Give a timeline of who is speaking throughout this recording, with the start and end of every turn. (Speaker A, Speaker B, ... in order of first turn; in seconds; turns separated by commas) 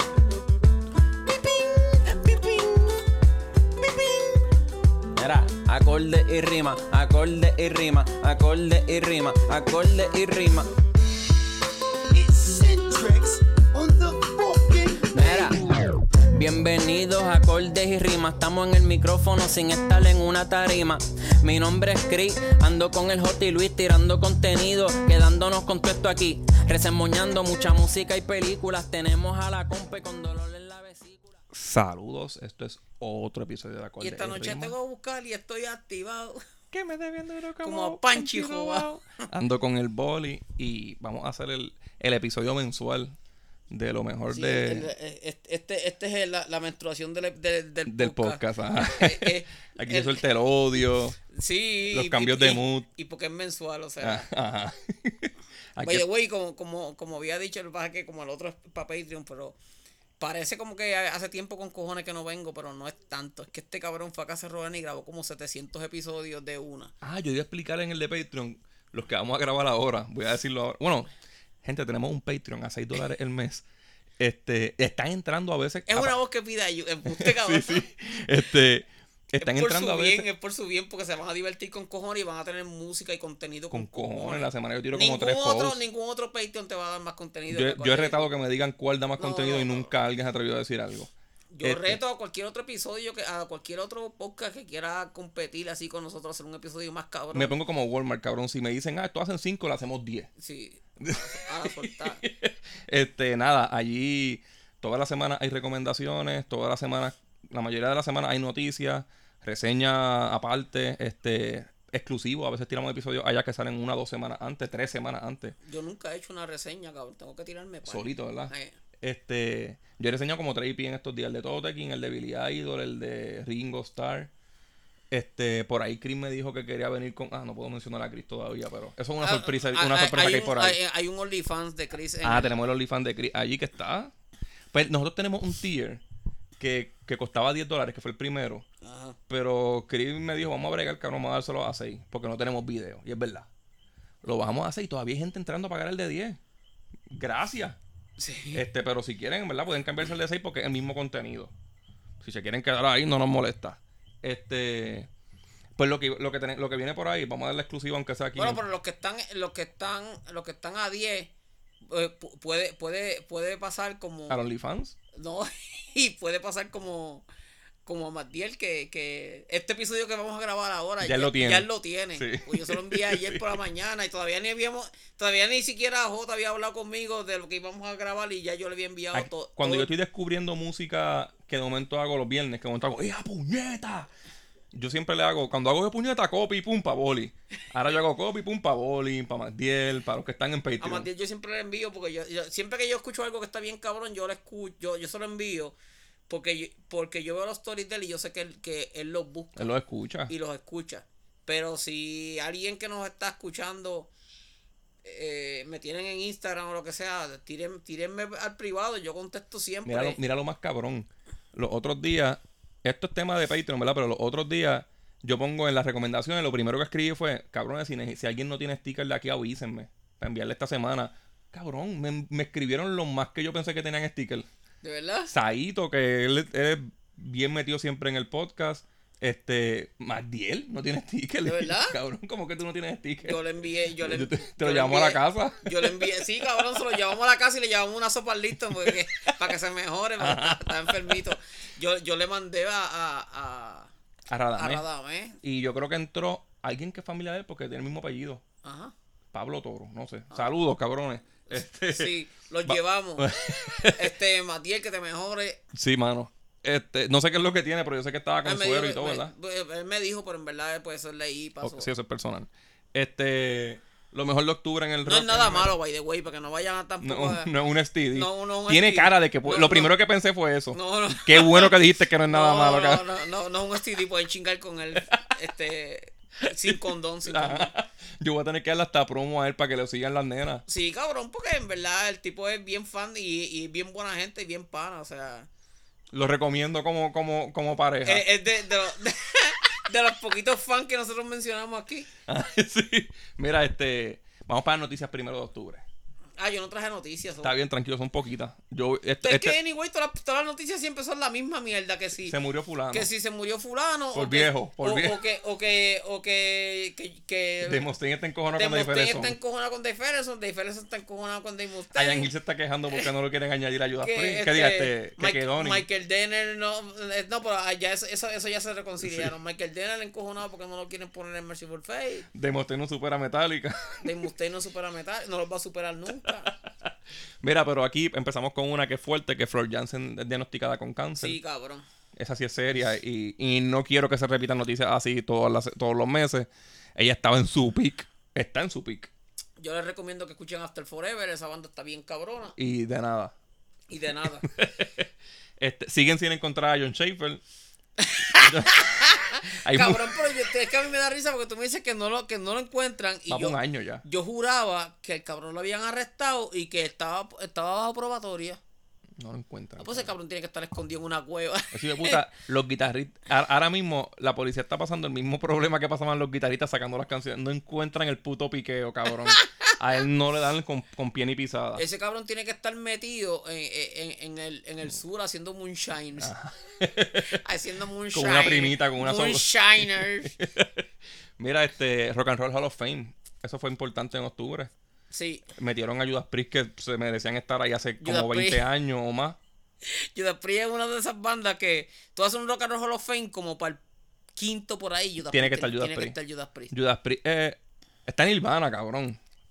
Speaker A: 1.4-3.0, Speaker A: 5.2-10.7, Speaker B: 12.1-15.7, Speaker A: 15.1-15.8, Speaker A: 16.3-31.3, Speaker C: 31.5-34.8, Speaker D: 34.0-36.4, Speaker C: 36.7-43.2, Speaker D: 37.6-39.3, Speaker C: 43.7-44.9, Speaker D: 44.3-50.2, Speaker C: 47.9-51.2, Speaker D: 51.3-54.3, Speaker C: 51.9-52.9, Speaker C: 54.0-56.0, Speaker D: 55.8-59.6, Speaker D: 60.2-66.9, Speaker C: 67.0-71.1, Speaker C: 71.6-73.6, Speaker C: 74.2-76.1, Speaker D: 75.9-77.9, Speaker C: 77.1-80.3, Speaker D: 79.4-88.3, Speaker C: 83.7-85.8, Speaker C: 87.5-92.0, Speaker D: 89.2-89.9, Speaker D: 91.5-97.6, Speaker C: 97.3-100.3, Speaker D: 100.4-102.2, Speaker C: 101.0-115.6, Speaker D: 115.6-118.8, Speaker C: 117.8-124.3, Speaker C: 125.1-130.8, Speaker D: 129.2-132.5, Speaker C: 132.2-134.1, Speaker C: 134.7-136.0, Speaker C: 136.6-138.7, Speaker D: 138.8-139.2, Speaker C: 139.3-143.5, Speaker C: 144.2-146.4, Speaker C: 147.1-147.8, Speaker D: 148.2-148.6, Speaker C: 148.5-151.5, Speaker C: 152.2-155.1, Speaker C: 155.8-158.6, Speaker D: 158.4-161.3, Speaker D: 161.9-164.4, Speaker C: 164.3-165.0, Speaker D: 165.2-167.3, Speaker D: 167.8-179.9, Speaker C: 171.0-173.6, Speaker C: 179.1-184.1, Speaker C: 184.7-191.1, Speaker D: 190.8-195.8, Speaker D: 196.3-199.8, Speaker C: 199.6-200.3, Speaker D: 200.3-204.1, Speaker D: 205.0-210.2, Speaker C: 209.9-224.5, Speaker D: 224.8-225.3, Speaker C: 225.3-233.4, Speaker D: 231.4-232.0, Speaker D: 233.2-243.9, Speaker C: 234.0-236.2, Speaker C: 238.7-239.3, Speaker C: 240.2-241.3, Speaker C: 244.3-244.8, Speaker D: 244.6-245.4, Speaker C: 245.4-248.4, Speaker D: 248.6-248.9, Speaker C: 249.3-252.1, Speaker D: 251.5-255.6, Speaker C: 252.7-254.1, Speaker C: 255.7-259.3, Speaker D: 258.4-261.9, Speaker C: 261.6-265.7, Speaker D: 265.0-267.5, Speaker C: 267.0-273.1, Speaker D: 268.1-269.9, Speaker D: 270.7-277.7, Speaker C: 276.7-280.6, Speaker D: 280.7-285.5, Speaker C: 286.1-288.3, Speaker D: 288.1-292.1, Speaker C: 292.3-295.9, Speaker D: 296.4-297.6, Speaker C: 297.4-299.6, Speaker D: 299.2-302.4, Speaker C: 302.2-303.1, Speaker D: 302.9-307.8, Speaker C: 304.1-305.2, Speaker C: 307.6-309.4, Speaker D: 308.6-312.3, Speaker C: 311.9-315.9, Speaker D: 314.0-322.3, Speaker C: 319.0-319.3, Speaker C: 322.3-324.2, Speaker D: 324.0-326.5, Speaker C: 326.2-326.7, Speaker C: 327.4-331.4, Speaker D: 331.2-331.9, Speaker C: 332.2-339.1, Speaker D: 339.6-342.6, Speaker C: 342.6-343.3, Speaker D: 343.9-344.5, Speaker C: 344.4-345.1, Speaker C: 345.6-347.4, Speaker D: 348.0-358.6, Speaker C: 348.3-350.2, Speaker C: 353.3-354.0, Speaker C: 359.2-360.1, Speaker D: 359.8-362.2, Speaker C: 361.7-371.8, Speaker D: 369.3-369.7, Speaker D: 371.8-376.3, Speaker C: 376.2-377.4, Speaker D: 377.2-380.3, Speaker C: 378.1-380.8, Speaker C: 381.4-384.7, Speaker D: 385.1-385.5, Speaker C: 385.6-389.4, Speaker D: 388.0-388.6, Speaker D: 389.9-393.8, Speaker D: 394.4-396.7, Speaker C: 395.3-396.2, Speaker C: 396.7-399.2